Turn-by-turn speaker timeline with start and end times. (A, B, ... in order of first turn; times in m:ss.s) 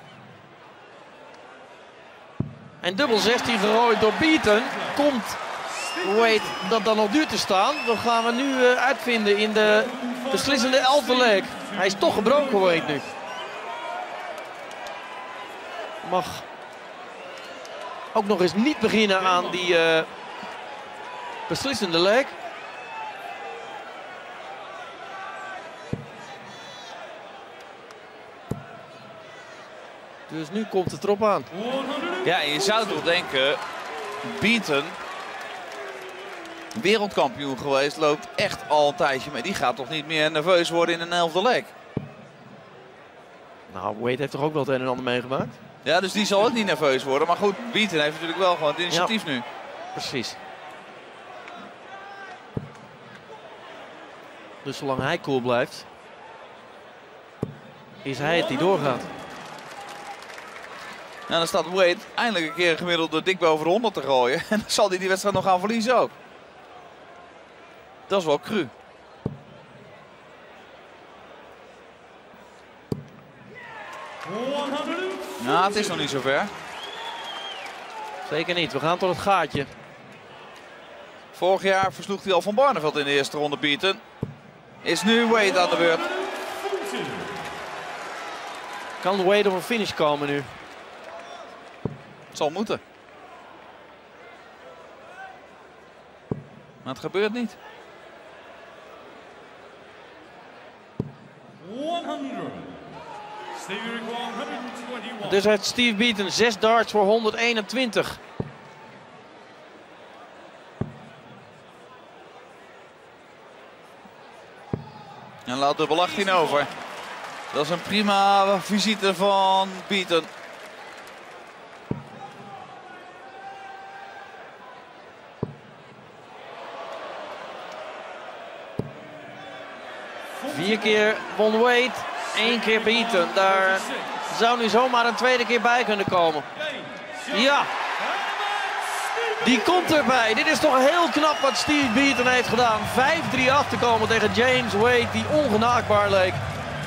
0:02.8-0:05.4 A
0:03.1-0:05.1 B
0:05.7-0:06.7 B
0:06.0-0:13.0 A
0:09.5-0:13.1 B
0:16.0-0:16.5 A
0:18.1-0:20.1 A
0:19.2-0:19.8 B
0:21.5-0:22.4 A
0:30.3-0:31.5 A
0:31.5-0:33.1 B
0:32.2-0:33.6 C
0:34.2-0:35.0 C
0:36.7-0:41.7 C
0:43.7-0:45.6 A
0:45.8-0:49.4 C
0:50.0-0:50.4 A
0:54.6-0:55.9 A
0:58.0-0:59.1 A
0:58.1-0:59.1 B
1:01.3-1:06.2 C
1:08.1-1:08.7 C
1:14.2-1:16.2 B
1:15.4-1:16.5 C
1:18.2-1:19.7 A
1:21.3-1:24.0 C
1:24.8-1:26.1 C
1:25.3-1:27.4 B
1:29.0-1:30.5 A
1:32.3-1:32.8 C
1:36.8-1:37.6 C
1:41.6-1:42.8 B
1:43.5-1:45.5 B
1:45.2-1:48.2 A
1:55.5-1:56.7 C
1:55.9-1:56.7 B
1:57.5-2:00.3 C
2:10.3-2:11.2 B
2:10.5-2:16.5 A
2:12.2-2:14.3 B
2:16.5-2:20.2 B
2:17.3-2:17.7 A
2:19.4-2:26.4 A